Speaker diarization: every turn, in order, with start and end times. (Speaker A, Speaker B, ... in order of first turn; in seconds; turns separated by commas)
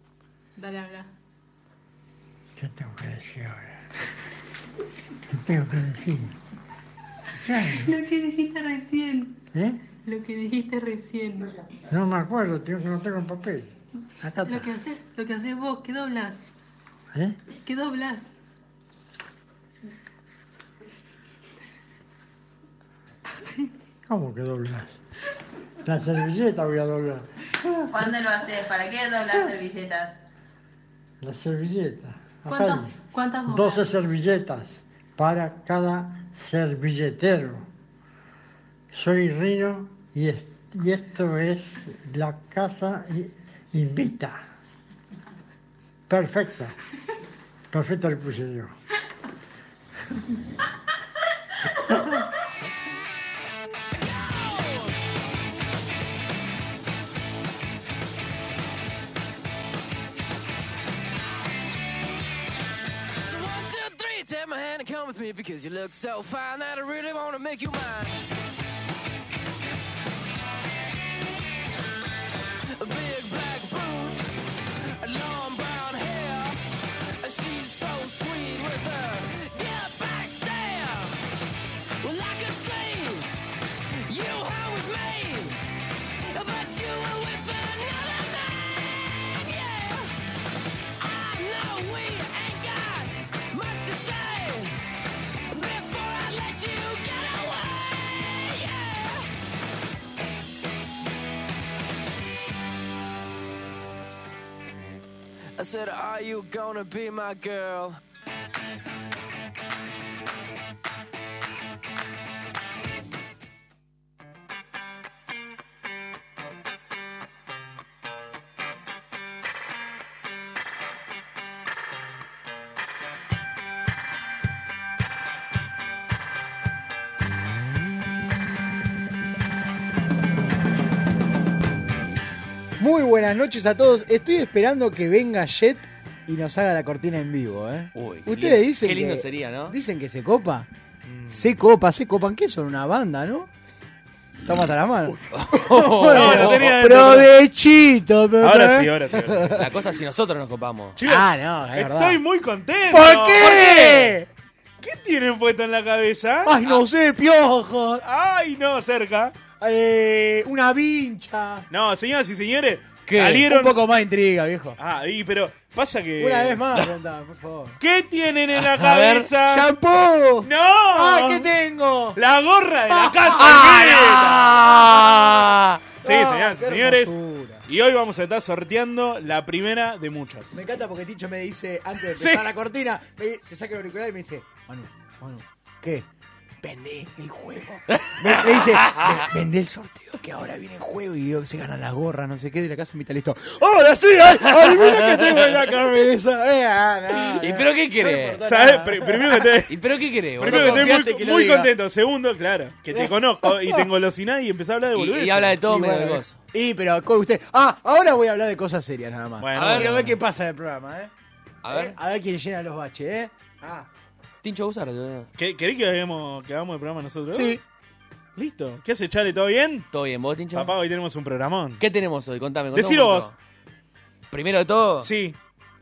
Speaker A: 0.6-1.1, Speaker B: 2.5-3.8, Speaker B: 5.3-6.3, Speaker B: 7.4-8.0, Speaker A: 7.8-9.4, Speaker B: 9.5-9.8, Speaker A: 9.9-11.5, Speaker B: 11.9-14.7, Speaker A: 14.4-16.4, Speaker B: 17.1-17.4, Speaker A: 17.5-18.3, Speaker B: 24.1-25.0, Speaker B: 25.8-27.3, Speaker B: 27.8-28.1, Speaker C: 27.9-30.1, Speaker B: 31.2-37.6, Speaker A: 32.5-33.8, Speaker B: 38.9-44.4, Speaker B: 46.1-46.7, Speaker B: 47.7-48.7, Speaker D: 54.0-54.9, Speaker D: 63.2-68.2, Speaker D: 72.8-74.3, Speaker D: 75.0-81.3, Speaker D: 82.0-83.3, Speaker D: 84.0-85.7, Speaker D: 86.3-90.1, Speaker D: 91.0-94.8, Speaker D: 95.5-99.3, Speaker D: 105.6-108.0, Speaker E: 132.8-140.7, Speaker F: 137.9-139.7, Speaker G: 141.1-141.5, Speaker E: 141.3-143.5, Speaker E: 144.4-149.7, Speaker F: 145.2-146.7, Speaker G: 146.1-147.3, Speaker G: 148.4-149.7, Speaker F: 149.5-151.0, Speaker G: 151.0-154.1, Speaker E: 151.0-152.2, Speaker E: 152.9-154.3, Speaker F: 153.4-154.1, Speaker G: 154.8-156.6, Speaker E: 156.4-158.0, Speaker G: 158.0-159.3, Speaker E: 159.6-161.7, Speaker G: 161.7-163.8, Speaker F: 163.1-163.4, Speaker E: 163.4-164.8, Speaker G: 164.8-166.7, Speaker E: 166.2-167.8, Speaker G: 167.8-169.7, Speaker F: 168.5-169.3, Speaker E: 169.4-172.2, Speaker G: 170.4-171.5, Speaker G: 172.2-174.7, Speaker E: 172.9-177.6, Speaker F: 173.4-173.9, Speaker F: 174.8-175.6, Speaker G: 176.0-177.1, Speaker G: 177.7-180.6, Speaker E: 180.5-186.1, Speaker G: 182.2-182.4, Speaker E: 186.6-199.5, Speaker F: 187.9-189.2, Speaker G: 194.5-195.8, Speaker F: 195.1-195.4, Speaker F: 197.1-198.4, Speaker G: 198.4-199.8, Speaker F: 199.7-200.9, Speaker G: 200.4-205.6, Speaker E: 200.4-201.7, Speaker E: 202.9-203.9, Speaker F: 204.9-206.4, Speaker E: 205.6-211.1, Speaker G: 209.4-210.2, Speaker F: 209.5-210.0, Speaker F: 211.6-212.0, Speaker E: 211.7-213.9, Speaker F: 214.4-215.3, Speaker G: 215.4-217.6, Speaker E: 217.3-217.6, Speaker G: 218.3-219.9, Speaker F: 219.9-220.7, Speaker G: 220.5-221.8, Speaker F: 221.8-223.3, Speaker G: 222.7-223.3, Speaker F: 224.3-225.1, Speaker G: 225.0-225.3